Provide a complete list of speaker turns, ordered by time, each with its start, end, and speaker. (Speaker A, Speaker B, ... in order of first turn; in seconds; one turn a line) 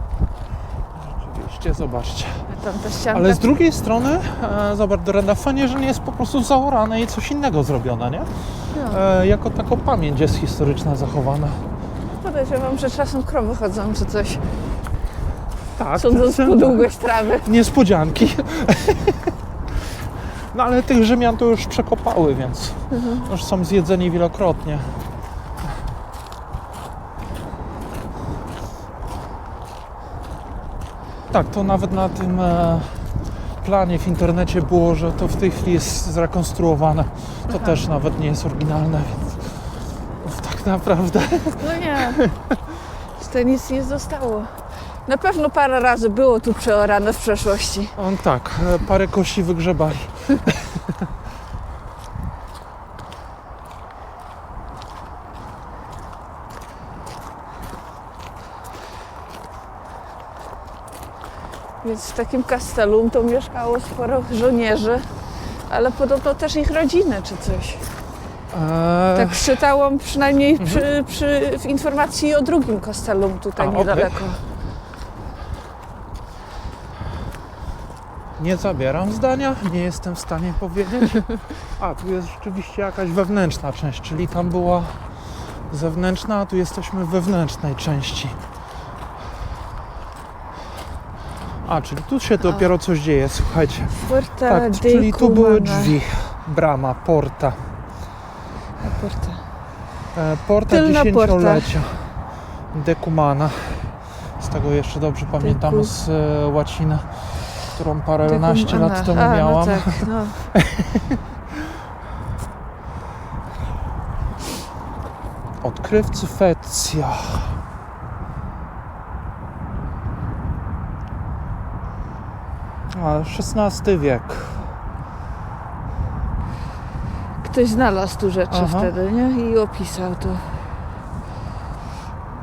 Speaker A: 0.9-2.5
Speaker B: 2.5-3.5
Speaker A: 3.1-11.7
Speaker B: 8.7-9.0
Speaker B: 12.2-14.5
Speaker A: 15.8-25.0
Speaker B: 16.0-17.5
Speaker B: 22.9-23.2
Speaker A: 31.3-42.5
Speaker B: 37.5-37.8
Speaker B: 41.6-42.4
Speaker B: 43.2-48.0
Speaker A: 48.0-51.0
Speaker B: 61.8-67.9
Speaker A: 68.5-69.6
Speaker B: 69.2-74.4
Speaker A: 70.6-70.9
Speaker A: 73.6-74.3
Speaker A: 78.4-88.4
Speaker A: 91.6-97.8
Speaker B: 92.4-92.7
Speaker B: 94.0-96.0
Speaker B: 98.8-99.4
Speaker A: 100.1-111.2
Speaker B: 100.7-101.8
Speaker B: 105.4-105.9
Speaker B: 108.2-110.4
Speaker A: 115.6-117.6
Speaker A: 122.9-124.7
Speaker B: 127.4-130.6
Speaker A: 128.5-128.9